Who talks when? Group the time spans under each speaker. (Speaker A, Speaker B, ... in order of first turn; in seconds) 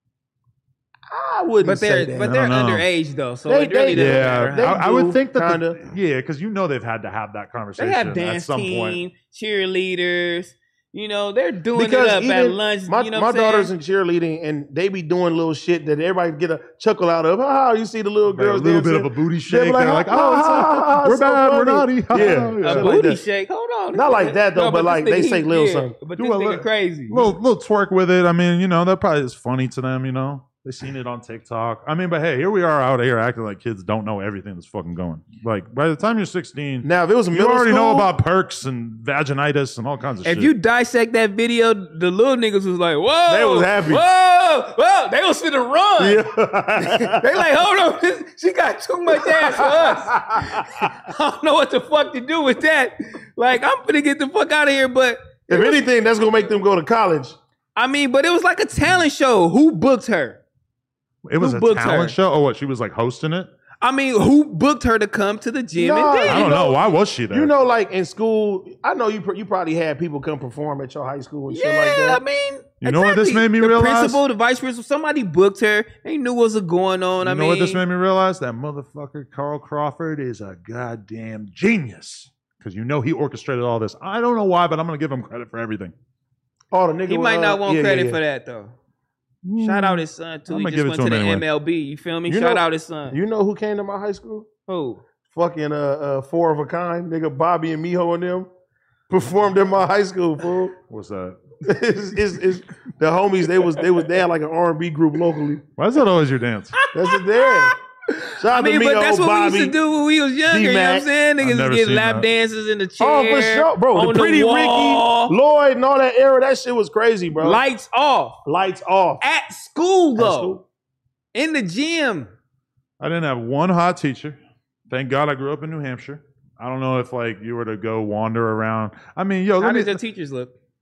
Speaker A: 1.1-2.3, 3.5-5.8, 11.7-23.2, 23.9-25.9, 36.8-38.1, 43.3-44.0, 46.0-47.3, 49.2-50.9, 55.5-57.4, 65.8-66.8, 67.3-72.2, 86.7-88.2, 92.3-94.5, 95.3-98.5, 99.1-100.7, 101.6-105.6, 106.9-107.7, 108.4-109.8, 110.5-111.1, 113.0-117.6, 118.5-119.2, 120.2-120.6
Speaker B: 1.6-4.8, 7.8-13.7, 22.1-27.3, 40.2-55.8, 57.8-60.4, 61.4-62.1, 63.8-66.7, 71.5-77.8, 87.1-88.7, 89.6-93.2, 94.7-95.0, 106.8-115.3, 117.4-118.4, 119.2-120.5, 121.3-122.3, 129.6-130.5
Speaker C: 2.2-2.9, 3.9-9.0, 18.3-22.9, 26.2-40.5, 61.2-63.5, 66.2-67.5, 72.8-74.2, 77.2-85.9, 89.4-91.4, 100.9-101.4, 105.8-106.8, 111.4-112.3, 123.0-124.4, 124.9-130.0